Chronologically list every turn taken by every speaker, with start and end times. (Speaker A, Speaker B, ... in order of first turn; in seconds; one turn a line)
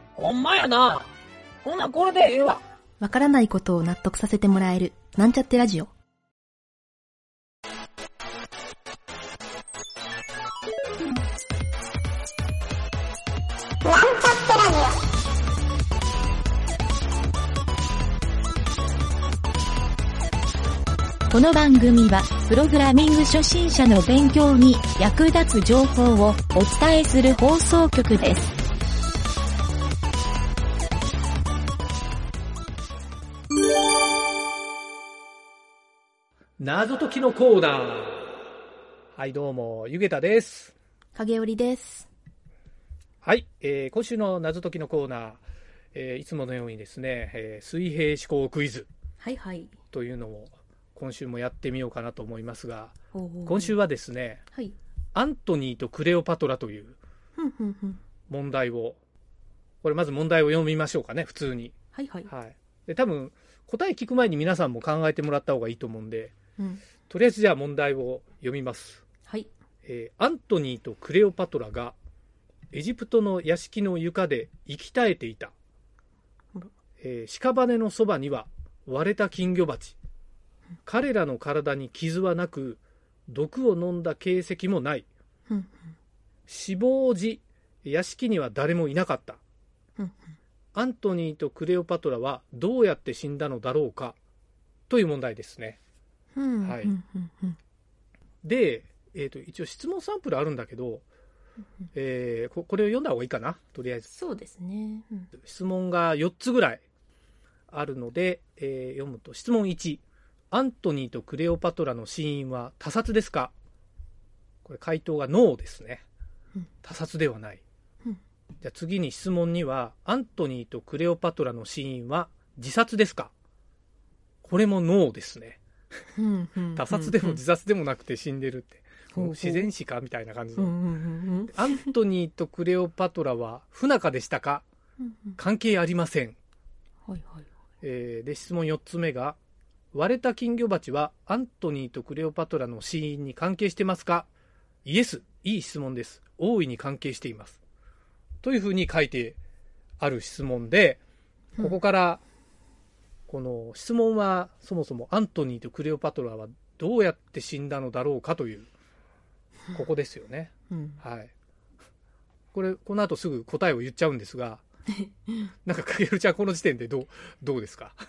Speaker A: 0.2-1.1
Speaker A: 1.6-2.6
Speaker B: 2.0-2.5
Speaker C: 3.0-5.9
Speaker B: 21.3-28.5
Speaker D: 36.6-38.4
Speaker D: 39.1-40.7
Speaker C: 41.1-42.1
Speaker D: 43.2-45.4
Speaker D: 45.9-48.9
Speaker C: 49.2-49.7
Speaker D: 49.9-54.4
Speaker C: 53.1-53.8
Speaker D: 55.1-57.0
Speaker C: 57.4-58.0
Speaker D: 58.3-59.0
Speaker D: 59.8-61.8
Speaker C: 61.9-62.3
Speaker D: 62.3-66.4
Speaker C: 66.6-66.8
Speaker D: 67.1-69.0
Speaker D: 69.8-72.0
Speaker D: 72.7-75.5
Speaker D: 77.0-80.0
Speaker D: 80.9-85.1
Speaker C: 85.5-85.9
Speaker D: 86.5-89.4
Speaker C: 90.0-90.3
Speaker D: 90.8-94.2
Speaker D: 94.9-95.8
Speaker C: 96.3-97.6
Speaker D: 96.6-97.0
Speaker D: 98.4-101.0
Speaker D: 101.9-104.1
Speaker C: 104.1-105.3
Speaker D: 105.4-106.8
Speaker D: 107.7-113.5
Speaker D: 114.6-116.0
Speaker D: 116.8-117.6
Speaker D: 118.6-123.3
Speaker D: 124.4-125.6
Speaker C: 126.1-127.4
Speaker D: 126.8-130.7
Speaker C: 129.1-129.7
Speaker C: 130.6-131.9
Speaker D: 131.5-134.6
Speaker C: 135.0-135.4
Speaker D: 135.4-136.4
Speaker C: 137.1-137.5
Speaker D: 137.8-139.4
Speaker D: 139.9-144.3
Speaker D: 144.8-147.6
Speaker D: 148.4-149.4
Speaker D: 150.0-151.0
Speaker D: 151.6-152.2
Speaker D: 153.3-158.7
Speaker D: 159.7-161.3
Speaker C: 160.7-161.0
Speaker D: 162.5-164.6
Speaker C: 164.9-165.5
Speaker D: 165.6-168.0